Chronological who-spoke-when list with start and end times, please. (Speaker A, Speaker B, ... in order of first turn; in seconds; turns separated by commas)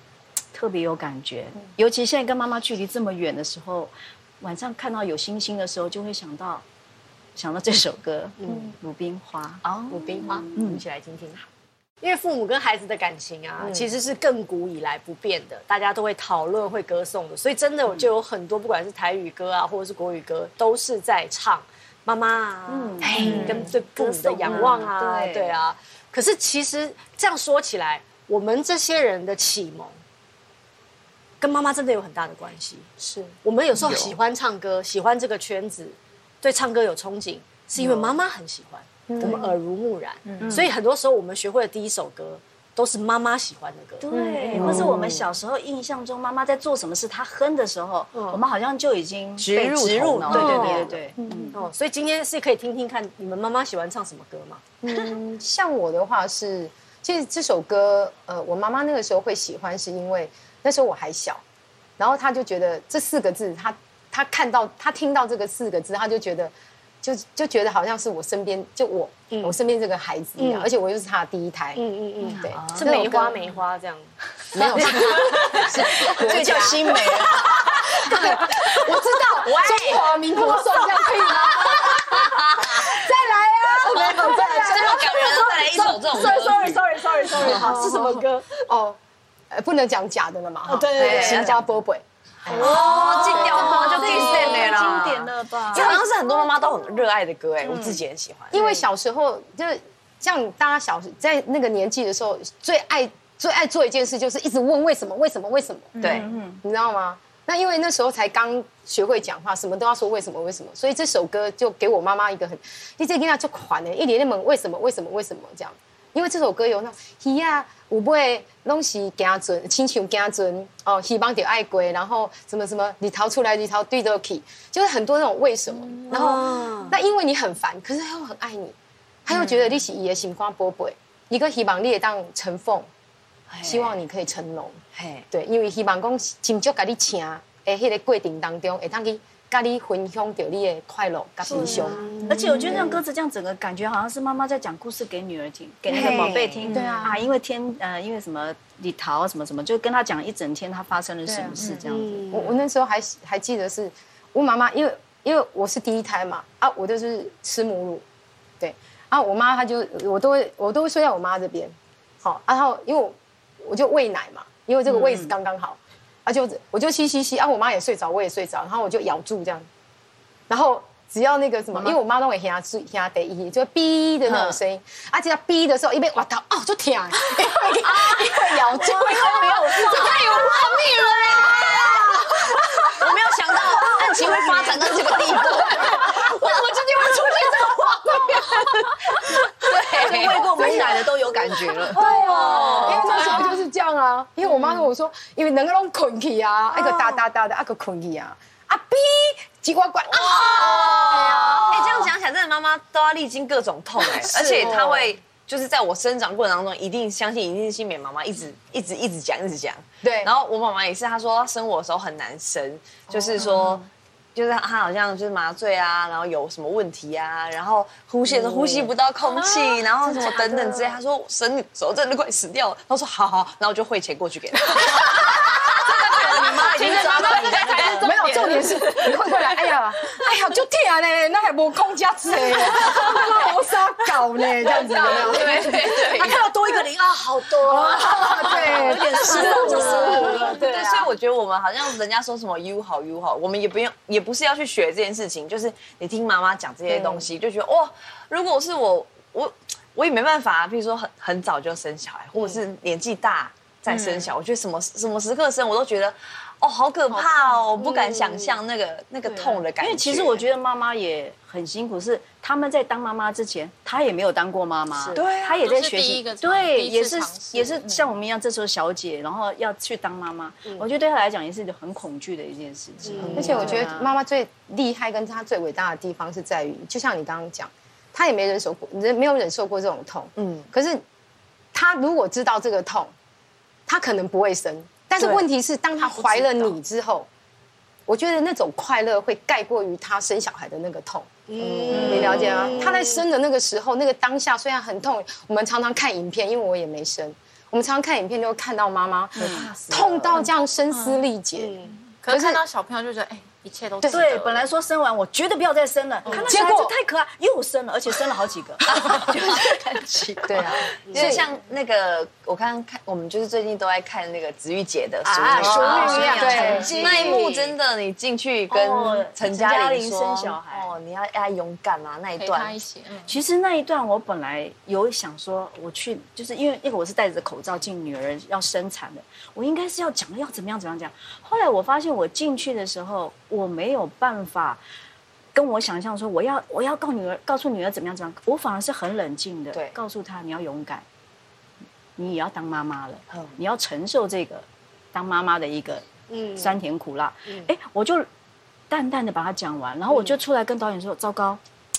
Speaker A: 0.5-6.6, Speaker A: 7.4-9.7, Speaker B: 8.4-8.8, Speaker C: 8.5-8.7, Speaker D: 9.7-10.5, Speaker B: 9.9-11.4, Speaker A: 10.5-10.8, Speaker B: 12.0-30.0, Speaker A: 22.7-25.6, Speaker D: 23.0-23.7, Speaker E: 23.2-23.7, Speaker C: 24.4-24.8, Speaker B: 31.4-32.9, Speaker C: 33.0-33.4, Speaker B: 33.4-44.1, Speaker C: 37.8-38.2, Speaker C: 39.1-39.5, Speaker E: 40.2-40.7, Speaker A: 40.4-40.7, Speaker A: 44.0-51.6, Speaker C: 44.1-44.9, Speaker D: 44.5-45.1, Speaker B: 44.6-45.1, Speaker B: 48.1-48.4, Speaker D: 49.4-51.1, Speaker B: 50.3-50.9, Speaker C: 51.2-51.6, Speaker B: 51.5-54.7, Speaker C: 54.8-61.4, Speaker C: 62.0-66.5, Speaker C: 67.0-71.8, Speaker B: 70.4-70.7, Speaker B: 71.8-74.2, Speaker C: 72.4-73.4, Speaker D: 72.5-73.1, Speaker C: 74.5-77.0, Speaker D: 74.5-77.7, Speaker A: 74.6-77.6, Speaker B: 75.0-75.3, Speaker B: 77.4-88.6, Speaker C: 77.7-83.0, Speaker D: 79.4-80.1, Speaker C: 83.8-85.1, Speaker D: 83.8-86.9, Speaker A: 86.3-86.8, Speaker C: 87.4-87.8, Speaker A: 87.4-88.2, Speaker C: 88.7-89.0, Speaker C: 89.5-94.3, Speaker B: 90.7-91.6, Speaker D: 91.0-91.6, Speaker D: 92.5-98.6, Speaker B: 92.5-95.2, Speaker A: 92.5-96.0, Speaker B: 95.7-96.3, Speaker B: 97.7-98.0, Speaker C: 98.5-106.1, Speaker E: 106.0-106.3, Speaker D: 106.0-106.3, Speaker A: 106.0-106.6, Speaker C: 106.6-128.8, Speaker B: 126.1-127.0, Speaker C: 129.3-132.9, Speaker D: 133.5-134.0, Speaker C: 133.6-143.0, Speaker D: 134.9-135.3, Speaker A: 141.5-152.3, Speaker B: 141.6-142.8, Speaker E: 142.3-142.6, Speaker D: 145.9-146.8, Speaker C: 145.9-147.2, Speaker E: 146.7-147.1, Speaker C: 151.3-151.6, Speaker E: 151.6-151.8, Speaker B: 151.9-152.6, Speaker C: 152.3-158.0, Speaker C: 158.6-169.7, Speaker A: 164.9-165.3, Speaker C: 170.5-180.6, Speaker D: 174.3-174.6, Speaker A: 178.7-180.3, Speaker B: 179.7-180.7, Speaker D: 180.0-182.3, Speaker B: 181.3-182.5, Speaker D: 183.0-188.4, Speaker B: 183.8-187.8, Speaker C: 185.8-186.1, Speaker C: 188.3-188.6, Speaker D: 189.2-193.4, Speaker A: 189.9-193.4, Speaker C: 190.5-191.0, Speaker C: 191.9-202.1, Speaker B: 191.9-193.4, Speaker A: 196.7-197.2, Speaker D: 200.1-228.6, Speaker B: 200.6-201.8, Speaker C: 204.2-205.1, Speaker C: 210.0-210.3, Speaker A: 213.4-213.8, Speaker C: 218.3-218.9, Speaker B: 220.1-220.7, Speaker C: 220.3-220.6, Speaker E: 226.2-228.9, Speaker C: 227.9-236.3, Speaker D: 232.8-233.2, Speaker B: 233.0-233.4, Speaker B: 234.7-241.1, Speaker D: 234.8-236.4, Speaker C: 237.6-240.5, Speaker A: 238.1-240.6, Speaker D: 239.3-260.4, Speaker B: 247.0-247.2, Speaker B: 252.3-252.6, Speaker E: 253.9-254.3, Speaker B: 257.7-258.6, Speaker B: 259.3-259.6, Speaker A: 259.8-274.1, Speaker B: 265.0-265.3, Speaker D: 265.1-265.6, Speaker E: 265.5-268.1, Speaker B: 273.0-273.8, Speaker D: 273.2-273.8, Speaker C: 273.3-281.0, Speaker D: 280.4-280.7, Speaker C: 281.7-283.1, Speaker C: 283.9-287.3, Speaker E: 286.0-286.8, Speaker C: 288.1-302.6, Speaker B: 291.5-293.2, Speaker D: 291.6-292.8, Speaker A: 291.9-292.6, Speaker A: 299.4-299.7, Speaker D: 299.4-300.5, Speaker E: 300.4-301.2, Speaker B: 301.6-302.0, Speaker E: 302.1-304.7, Speaker A: 304.1-310.9, Speaker C: 306.4-306.9, Speaker D: 308.9-309.6, Speaker C: 310.5-311.5, Speaker B: 311.1-311.4, Speaker D: 311.1-322.8, Speaker B: 315.2-317.8, Speaker C: 315.6-317.0, Speaker A: 315.8-317.0, Speaker E: 316.2-317.0, Speaker A: 318.7-320.9, Speaker E: 322.4-323.4, Speaker A: 323.3-334.8, Speaker A: 335.5-341.1, Speaker D: 339.7-340.0, Speaker A: 342.2-348.3, Speaker D: 343.3-343.6, Speaker B: 346.3-346.8, Speaker B: 347.5-347.7, Speaker A: 348.9-351.6, Speaker B: 350.1-350.4